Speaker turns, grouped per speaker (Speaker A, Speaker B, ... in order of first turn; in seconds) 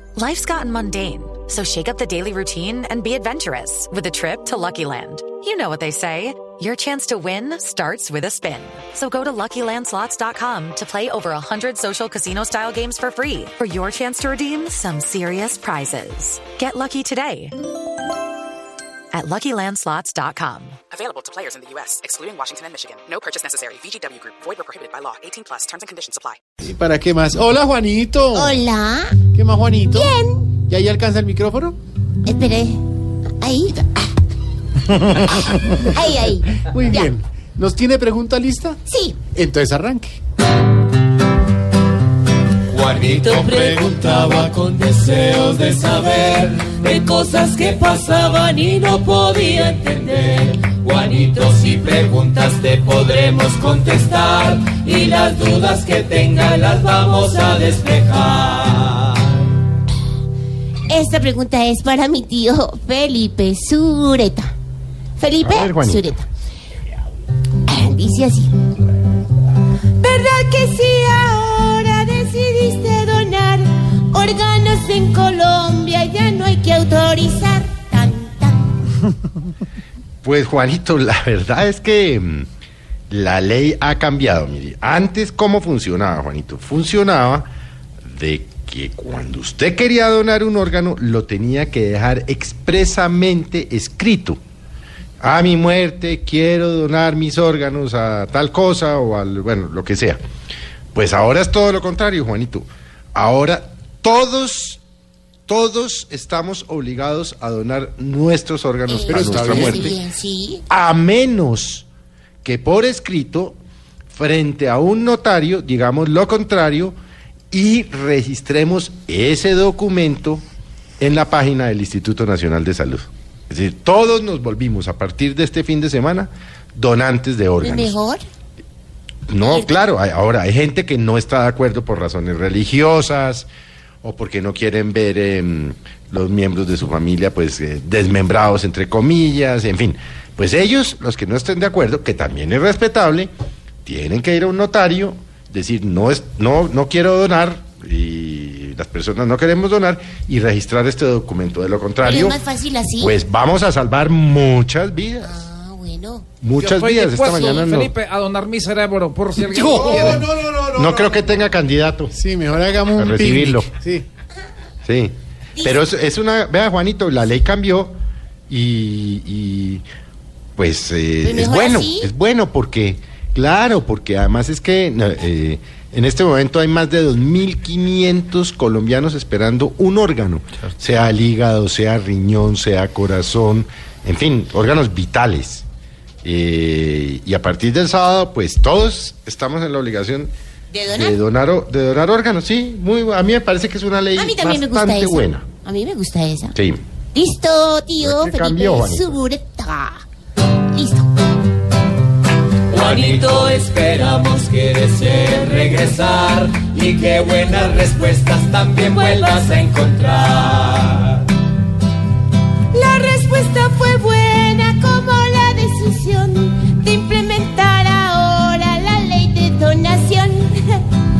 Speaker A: 0.1-17.6, 19.1-20.8
Speaker B: 20.9-26.4
Speaker C: 26.6-28.6, 29.3-31.8, 36.6-40.2, 109.1-109.9, 159.4-161.2, 162.1-164.1
Speaker D: 28.3-29.2, 29.9-30.5, 32.2-32.8, 33.4-34.1, 35.8-37.1, 38.9-39.2, 60.9-64.5, 65.2-66.3, 67.7-68.5, 70.0-78.7, 108.9-110.6, 127.6-128.2, 129.4-129.8, 152.0-153.1, 155.2-156.3, 165.6-165.8, 171.2-172.1, 190.7-191.2, 194.2-196.6, 197.1-200.0, 200.7-201.1, 212.7-220.8
Speaker E: 42.7-59.2, 202.7-211.2
Speaker F: 65.4-66.0, 80.2-82.5, 83.1-87.5, 88.1-94.4, 95.2-100.2, 100.9-104.8, 105.5-110.0, 110.7-111.9, 112.4-113.6, 114.1-117.0, 117.5-120.4, 121.0-128.0, 129.3-133.5, 134.0-143.3, 143.8-152.4, 153.0-155.4, 156.4-157.9, 159.8-162.1, 162.9-163.7, 164.8-167.9, 168.5-169.8, 170.6-185.6, 186.2-190.3, 190.9-195.5, 196.5-196.8, 198.0-199.2
Speaker G: 156.6-160.2